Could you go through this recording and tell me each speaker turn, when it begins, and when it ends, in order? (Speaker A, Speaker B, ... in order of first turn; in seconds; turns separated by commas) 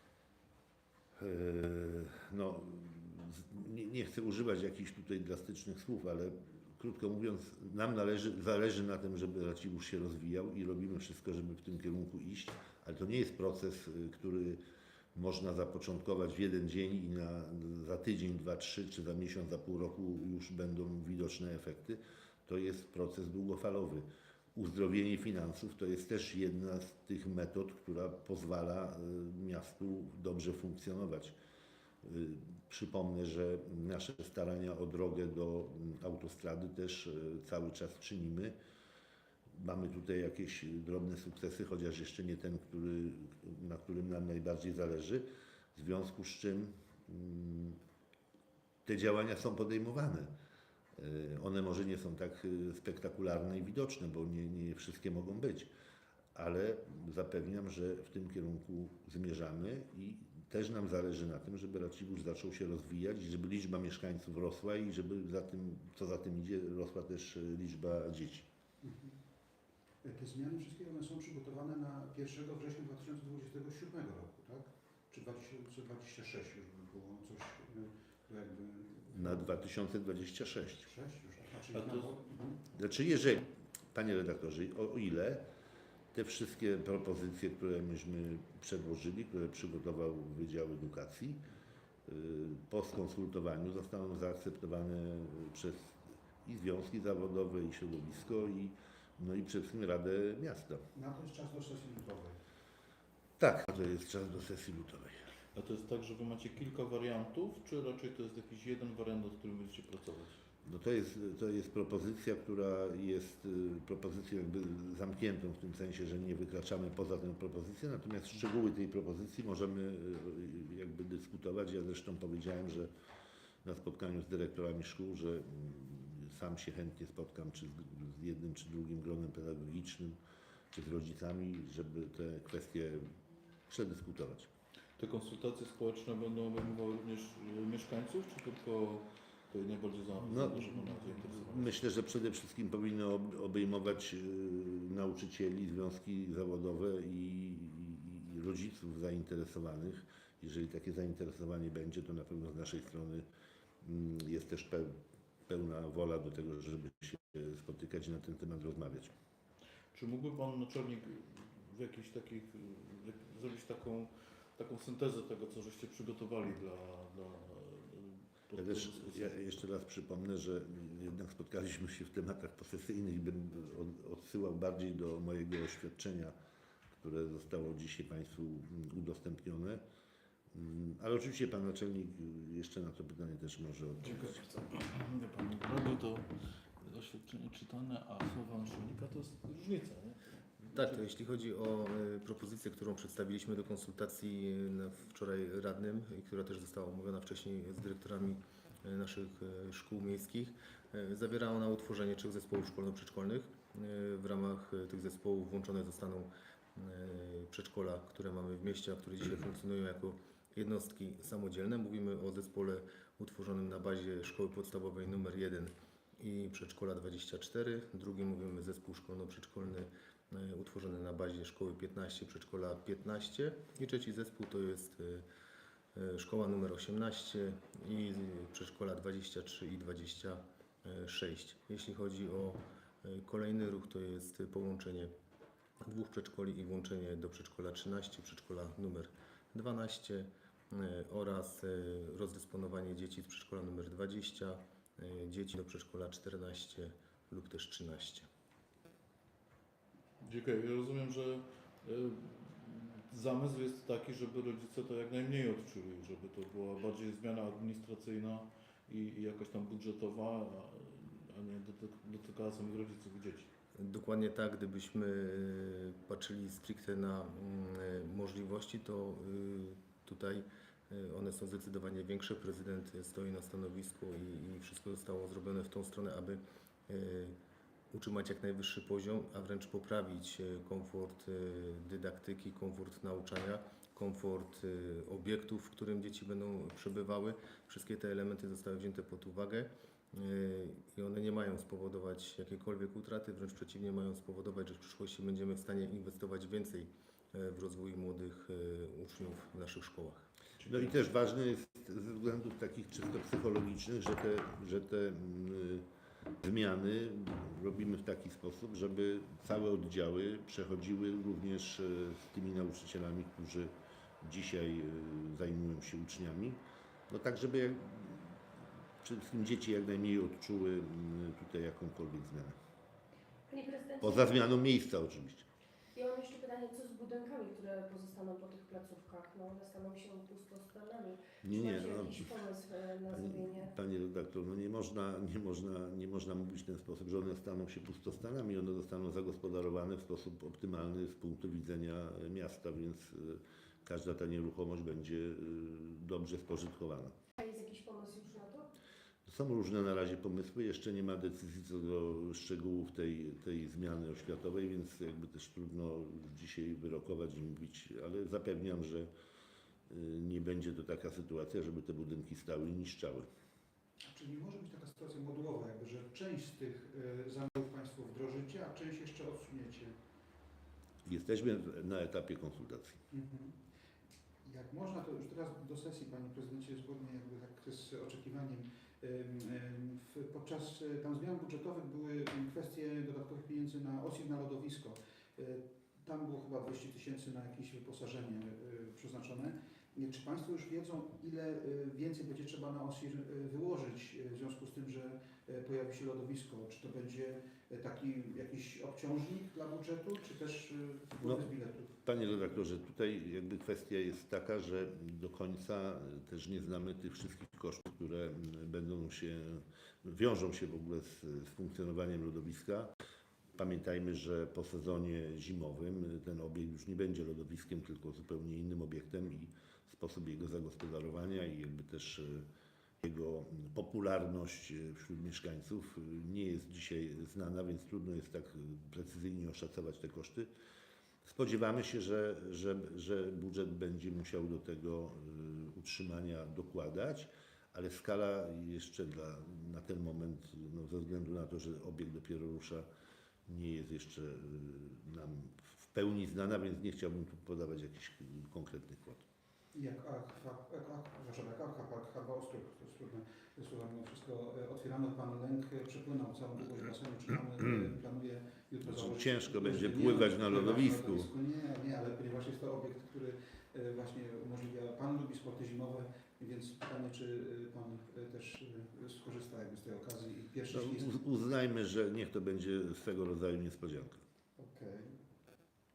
Speaker A: 1.2-14.6, Speaker A: 15.1-31.4, Speaker A: 32.0-38.5, Speaker A: 39.5-47.8, Speaker A: 48.8-50.3, Speaker A: 51.0-55.7, Speaker A: 56.3-68.5, Speaker B: 68.8-69.2, Speaker B: 70.0-79.6, Speaker A: 79.1-80.9, Speaker B: 80.8-82.6, Speaker C: 81.7-82.1, Speaker A: 82.7-85.5, Speaker A: 86.1-91.4, Speaker A: 92.0-100.9, Speaker B: 100.9-102.4, Speaker A: 103.4-105.3, Speaker C: 105.5-110.4, Speaker A: 110.6-122.9, Speaker A: 123.6-130.2, Speaker A: 130.7-133.1, Speaker A: 133.7-134.5, Speaker C: 135.0-141.8, Speaker A: 140.2-153.2, Speaker A: 153.8-159.1, Speaker C: 159.9-169.3, Speaker A: 168.6-176.3, Speaker A: 176.9-179.8, Speaker A: 180.5-184.4, Speaker C: 184.0-191.0, Speaker D: 190.7-225.2, Speaker D: 225.9-235.1, Speaker D: 235.8-248.3, Speaker C: 250.2-263.5, Speaker D: 263.7-277.4, Speaker D: 277.9-300.3, Speaker C: 300.6-300.9, Speaker A: 300.6-305.9, Speaker A: 306.4-318.4, Speaker A: 319.0-322.6, Speaker E: 323.5-324.4, Speaker A: 324.0-325.5, Speaker E: 325.9-333.7, Speaker A: 331.4-332.3, Speaker A: 333.1-347.1, Speaker E: 347.4-348.7, Speaker A: 349.2-359.1, Speaker A: 359.9-363.3, Speaker B: 364.0-369.9, Speaker A: 371.0-373.0, Speaker B: 373.1-373.6, Speaker B: 374.4-402.1, Speaker A: 402.0-412.9, Speaker A: 413.6-422.5, Speaker A: 423.0-430.5, Speaker A: 431.2-442.9, Speaker A: 443.5-449.2, Speaker B: 449.7-471.2, Speaker A: 458.9-461.3, Speaker A: 470.7-474.2, Speaker B: 474.6-475.2